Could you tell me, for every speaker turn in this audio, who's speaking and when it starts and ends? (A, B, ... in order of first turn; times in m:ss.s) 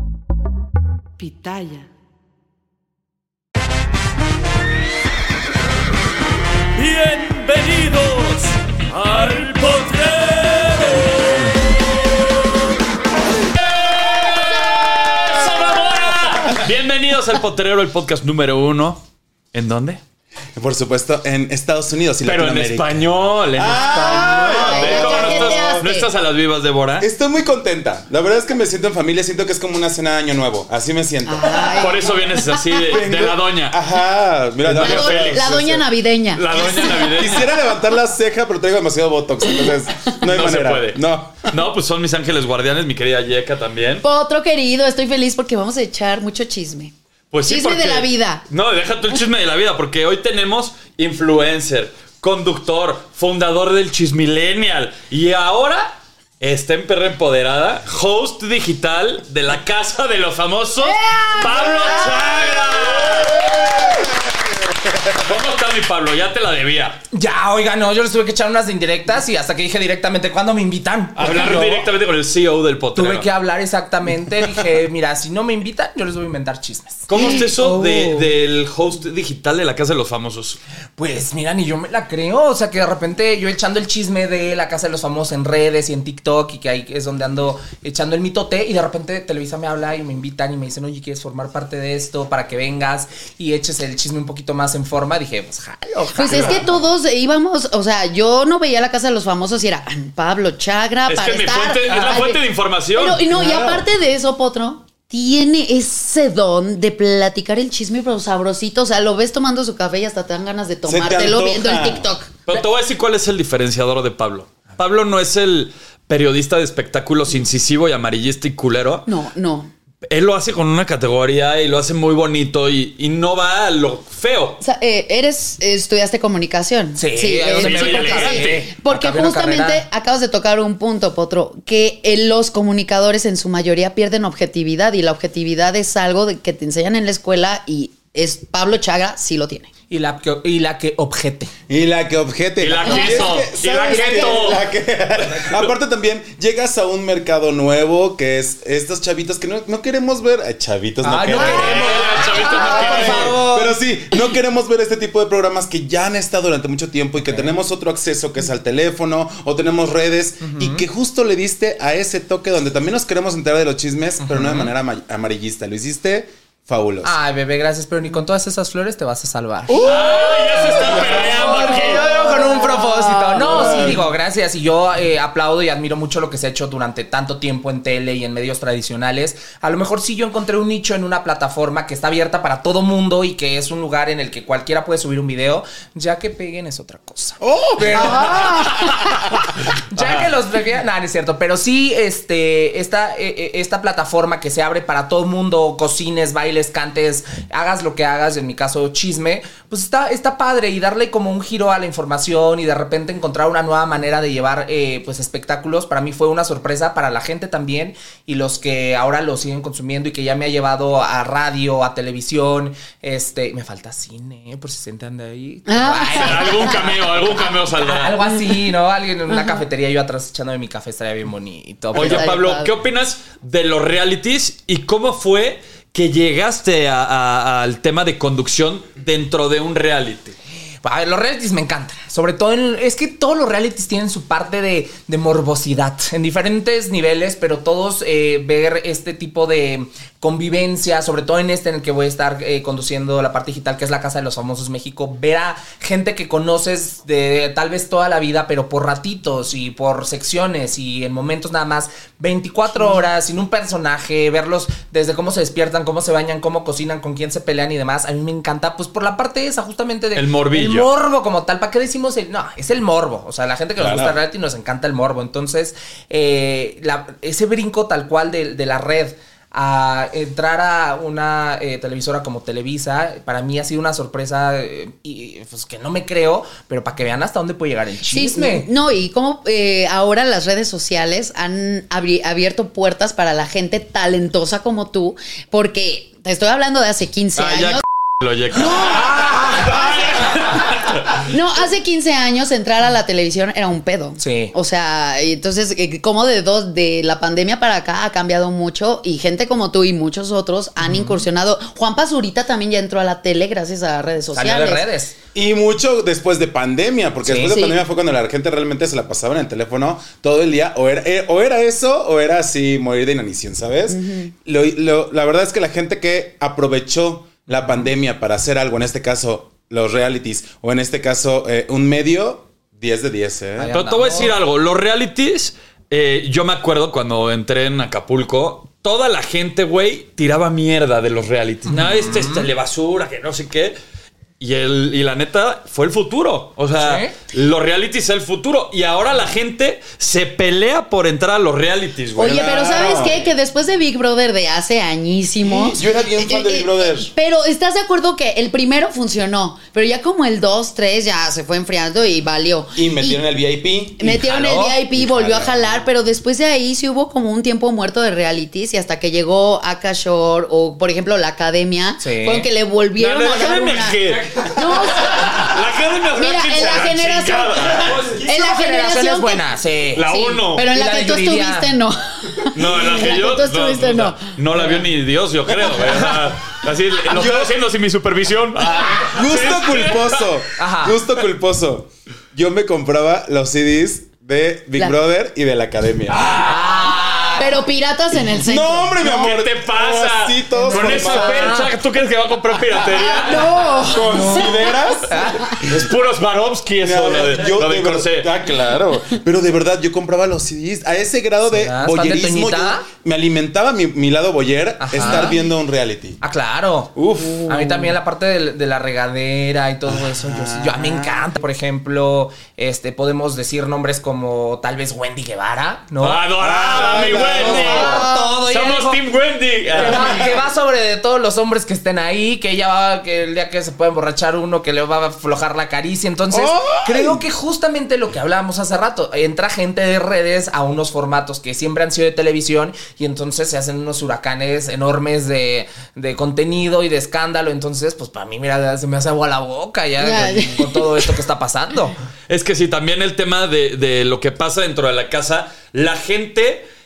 0:01.2-0:01.8 A
0:06.7-0:11.2 B
0:13.7-0:19.0 B
0:19.5-0:20.0 B
0:20.5-0:25.9 C
0:22.2-0:27.1 B
0:23.7-0:26.1 A
0:27.0-0:32.0 C
0:31.2-0:33.0 A
0:31.7-0:33.8 B
0:32.8-0:35.8 C
0:34.6-0:35.5 B
0:34.7-0:37.2 A
0:36.3-0:37.6 B
0:36.7-0:41.5 C
0:40.2-0:44.0 B
0:44.0-0:46.9 A
0:47.3-1:03.4 B
0:47.5-0:48.4 A
1:00.8-1:03.3 A
1:03.4-1:05.1 C
1:05.1-1:07.0 B
1:07.1-1:11.9 D
1:11.2-1:13.3 B
1:12.9-1:18.2 D
1:17.1-1:20.6 B
1:17.2-1:17.5 A
1:21.0-1:36.7 D
1:36.1-1:42.4 A
1:41.1-1:43.2 B
1:41.9-1:42.2 D
1:42.9-1:52.6 A
1:43.3-1:43.8 C
1:50.8-1:52.0 C
1:52.5-1:59.1 B
1:59.0-1:59.7 A
2:00.0-2:04.6 B
2:04.6-2:19.7 A
2:07.0-2:09.8 D
2:07.5-2:08.7 B
2:19.9-2:21.5 D
2:21.7-2:32.0 C
2:22.6-2:24.6 B
2:22.8-2:24.4 A
2:25.4-2:25.7 B
2:31.0-2:33.8 D
2:31.4-2:33.4 B
2:32.6-2:47.2 C
2:37.2-2:37.5 D
2:40.4-2:40.8 D
2:44.2-2:44.7 D
2:47.0-2:49.9 D
2:49.8-2:52.0 B
2:49.8-2:50.7 A
2:50.9-3:09.2 D
2:51.5-2:54.0 A
2:53.4-2:54.0 C
3:07.4-3:08.6 C
3:07.9-3:09.3 A
3:09.8-3:37.0 D
3:35.7-3:37.0 A
3:36.1-3:38.2 B
3:37.8-3:42.3 D
3:39.3-3:39.6 A
3:41.9-3:42.7 A
3:41.9-3:50.3 B
3:50.8-4:38.7 D
4:20.1-4:20.9 B
4:23.8-4:24.2 C
4:38.1-4:47.8 A
4:47.4-4:50.9 B
4:48.5-5:04.8 A
4:48.9-4:50.0 D
4:54.2-4:54.5 D
5:00.8-5:01.2 D
5:04.3-5:05.1 D
5:05.3-5:23.7 C
5:07.2-5:07.7 D
5:13.9-5:14.3 A
5:17.6-5:17.9 D
5:23.6-5:24.3 D
5:23.7-5:33.8 B
5:31.7-5:32.5 D
5:34.4-5:43.0 B
5:36.8-5:37.1 D
5:42.2-5:53.2 A
5:42.2-5:43.2 C
5:45.4-5:47.1 C
5:52.8-5:54.1 C
5:54.0-6:05.6 A
5:54.0-5:54.8 D
5:55.0-5:55.8 C
6:02.0-6:02.5 D
6:03.0-6:08.1 B
6:06.1-6:14.3 A
6:08.1-6:10.0 D
6:09.9-6:10.7 B
6:10.6-6:11.7 D
6:12.5-6:20.3 B
6:14.5-6:14.8 D
6:15.7-6:16.2 D
6:17.0-6:17.5 C
6:18.9-6:26.4 C
6:20.6-6:21.0 D
6:26.1-6:27.4 B
6:26.2-6:27.5 D
6:27.4-6:29.1 A
6:28.4-6:31.6 C
6:29.0-6:33.6 B
6:30.7-6:31.8 D
6:32.8-6:35.6 A
6:33.8-6:35.9 C
6:34.0-6:35.5 D
6:35.5-6:38.3 B
6:36.8-6:46.2 C
6:41.5-6:42.8 D
6:44.8-6:45.3 D
6:45.0-6:45.4 A
6:46.2-6:59.0 D
6:47.0-6:47.6 C
6:47.3-6:47.9 A
6:49.9-6:51.2 C
6:56.0-7:00.3 B
6:56.4-6:58.1 C
6:57.9-6:58.2 A
6:59.7-7:21.9 D
6:59.8-7:00.3 C
7:06.3-7:07.2 C
7:20.0-7:21.1 A
7:22.3-7:26.6 B